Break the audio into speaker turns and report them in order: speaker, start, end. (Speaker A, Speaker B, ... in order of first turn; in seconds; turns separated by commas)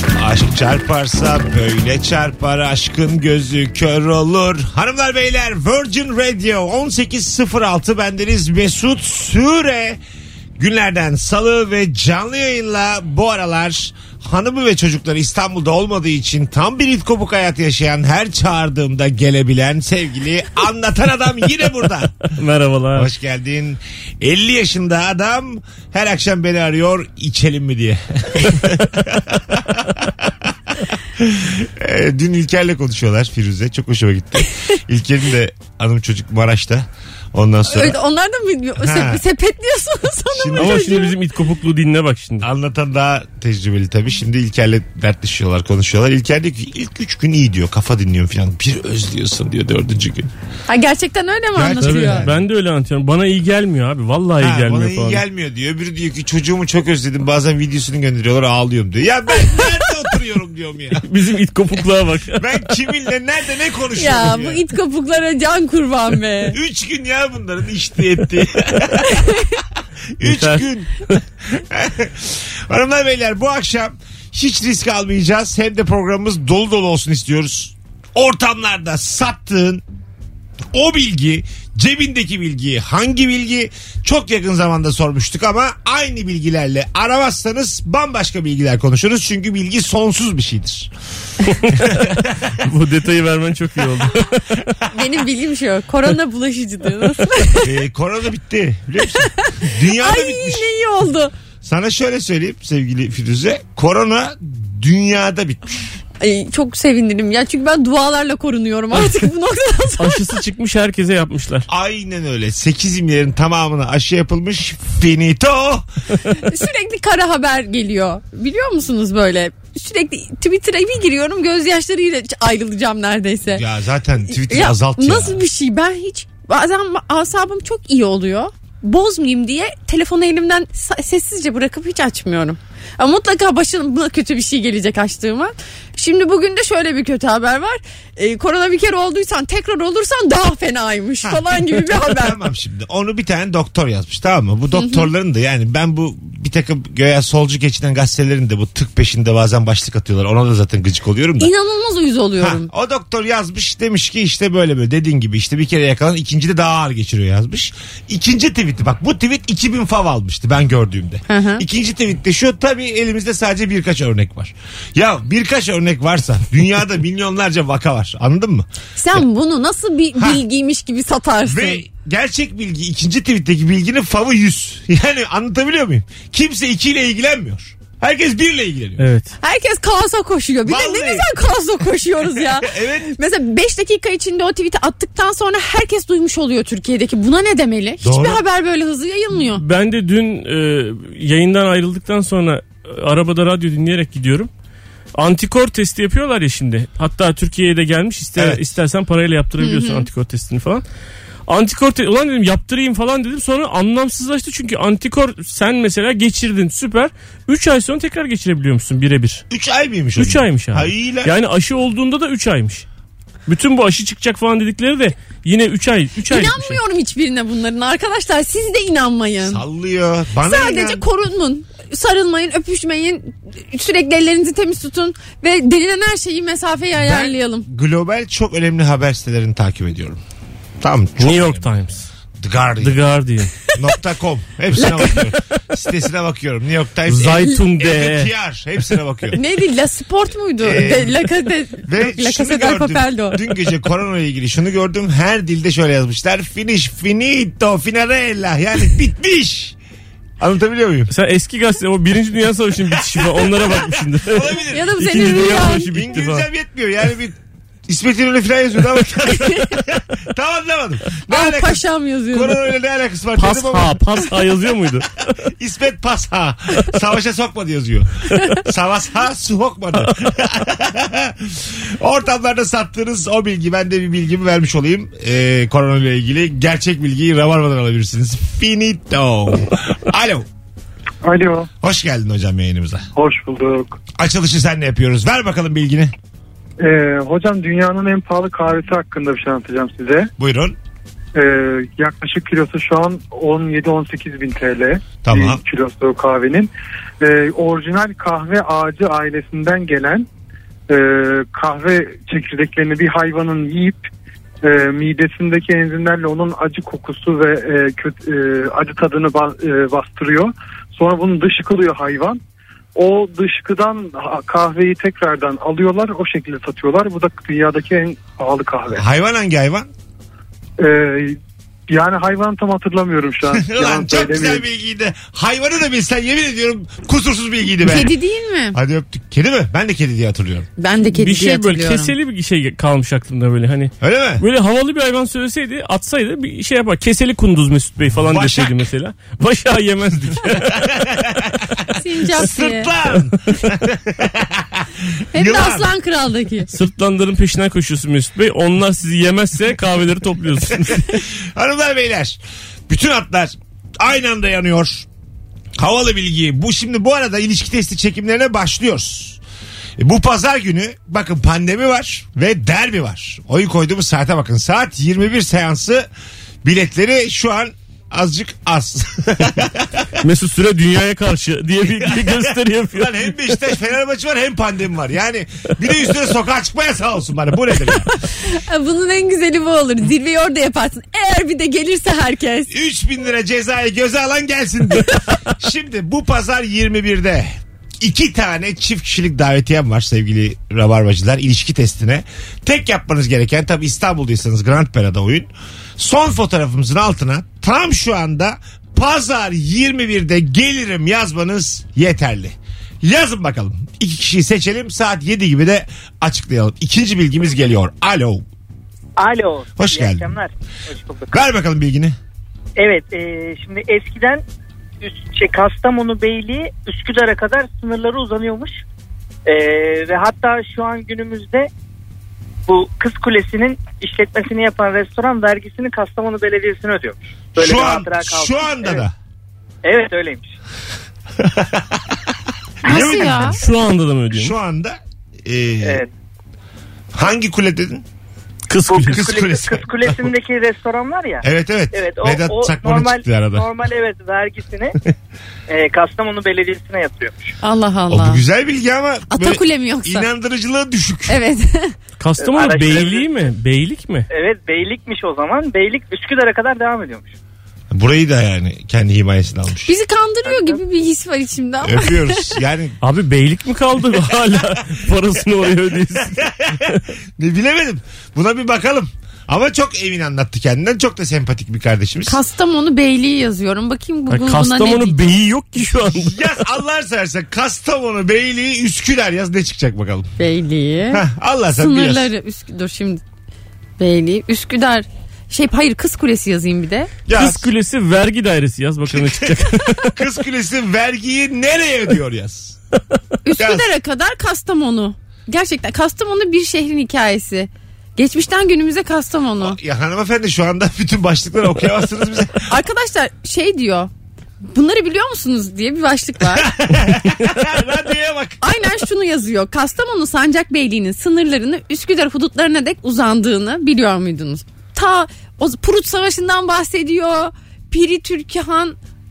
Speaker A: 0.2-10.0, Speaker A: 10.6-22.2, Speaker B: 22.3-23.1, Speaker A: 22.9-30.5, Speaker A: 31.1-38.0, Speaker C: 37.7-41.1, Speaker A: 38.8-39.2, Speaker A: 40.3-40.9, Speaker B: 40.6-42.5, Speaker A: 42.4-50.3, Speaker C: 50.7-52.2, Speaker A: 51.5-52.5, Speaker B: 51.8-55.2, Speaker A: 54.4-61.1, Speaker C: 59.5-59.8, Speaker B: 61.0-62.6, Speaker A: 62.4-64.6, Speaker C: 64.0-66.6, Speaker A: 66.5-69.2, Speaker C: 69.0-69.5, Speaker A: 70.2-79.8, Speaker B: 70.2-71.1, Speaker A: 80.7-90.9, Speaker B: 91.5-94.6, Speaker A: 91.7-92.4, Speaker C: 94.9-97.7, Speaker A: 97.6-100.7, Speaker C: 99.2-101.3, Speaker A: 101.6-106.0, Speaker C: 106.2-110.4, Speaker B: 110.0-111.7, Speaker A: 111.7-115.9, Speaker C: 116.3-123.6, Speaker A: 123.5-125.4, Speaker C: 124.3-142.4, Speaker A: 141.2-151.5, Speaker C: 144.8-145.1, Speaker C: 151.4-152.7, Speaker A: 152.4-168.7, Speaker C: 161.3-161.7, Speaker C: 169.0-171.8, Speaker A: 170.2-170.4, Speaker A: 171.4-179.1, Speaker B: 179.0-179.3, Speaker C: 179.4-189.6, Speaker A: 180.7-181.3, Speaker A: 182.3-183.1, Speaker A: 188.0-188.4, Speaker B: 189.5-194.5, Speaker B: 195.2-200.8, Speaker A: 198.4-198.7, Speaker C: 199.6-200.1, Speaker B: 201.5-209.4, Speaker A: 209.5-211.3, Speaker B: 210.2-212.8, Speaker B: 213.5-216.8, Speaker C: 216.3-219.6, Speaker A: 219.4-221.1, Speaker C: 220.4-227.7, Speaker A: 227.0-230.2, Speaker A: 230.8-231.8, Speaker B: 231.2-232.1, Speaker A: 232.4-233.0, Speaker B: 232.8-233.5, Speaker A: 233.7-239.4, Speaker C: 234.8-235.2, Speaker B: 237.1-238.3, Speaker C: 239.3-243.4, Speaker A: 240.6-241.3, Speaker A: 241.8-249.8, Speaker A: 250.4-251.1, Speaker B: 251.1-256.4, Speaker A: 253.4-264.0, Speaker C: 254.7-255.9, Speaker C: 261.3-262.6, Speaker B: 263.4-265.3, Speaker A: 265.5-280.5, Speaker D: 281.2-281.7, Speaker A: 281.8-283.1, Speaker D: 283.1-284.0, Speaker A: 284.2-286.1, Speaker D: 286.8-290.3, Speaker A: 290.4-290.8, Speaker D: 291.4-300.3, Speaker A: 295.2-295.6, Speaker D: 300.9-304.1, Speaker D: 304.6-312.4, Speaker D: 312.9-319.0, Speaker A: 318.9-319.9, Speaker D: 320.8-321.4, Speaker D: 321.9-324.6, Speaker A: 323.5-328.1, Speaker C: 327.8-328.8, Speaker A: 328.7-330.7, Speaker C: 330.8-332.1, Speaker B: 331.1-340.9, Speaker A: 334.0-334.4, Speaker A: 338.2-338.9, Speaker A: 340.3-345.9, Speaker C: 341.9-342.9, Speaker C: 345.3-346.7, Speaker B: 346.7-351.1, Speaker A: 350.7-355.1, Speaker A: 355.8-359.4, Speaker A: 360.0-366.1, Speaker A: 366.6-370.1, Speaker B: 370.2-373.3, Speaker A: 371.9-378.1, Speaker C: 378.1-382.7, Speaker A: 382.7-408.4, Speaker E: 409.2-411.5, Speaker A: 409.8-410.4, Speaker A: 411.3-412.2, Speaker E: 412.8-414.4, Speaker E: 415.0-418.8, Speaker E: 419.5-421.7, Speaker E: 422.7-429.1, Speaker A: 427.6-429.1, Speaker E: 429.8-430.6, Speaker A: 431.4-432.3, Speaker A: 432.8-433.7, Speaker C: 432.9-433.6, Speaker B: 433.5-434.5, Speaker A: 434.3-436.0, Speaker E: 435.8-436.1, Speaker A: 437.1-438.1, Speaker B: 438.7-439.3, Speaker E: 438.9-445.0, Speaker A: 438.9-440.3, Speaker A: 441.4-443.7, Speaker E: 445.7-447.5, Speaker C: 447.6-448.4, Speaker A: 448.1-451.4, Speaker C: 449.3-450.3, Speaker C: 451.3-452.0, Speaker B: 452.2-454.3, Speaker E: 452.4-453.5, Speaker E: 454.3-457.3, Speaker A: 457.9-459.9, Speaker C: 459.9-462.6, Speaker E: 460.4-460.8, Speaker A: 461.8-463.0, Speaker B: 463.0-467.0, Speaker A: 466.1-472.4, Speaker C: 472.3-475.3, Speaker B: 474.3-476.5, Speaker A: 475.9-480.3, Speaker C: 480.4-481.2, Speaker A: 481.1-482.3, Speaker C: 481.8-483.2, Speaker C: 484.0-487.1, Speaker A: 487.3-487.7, Speaker B: 487.3-490.2, Speaker A: 489.1-492.8, Speaker C: 493.4-499.8, Speaker A: 493.6-493.9, Speaker A: 499.6-502.7, Speaker C: 502.7-504.1, Speaker C: 504.7-506.7, Speaker A: 506.5-508.6, Speaker C: 508.6-519.0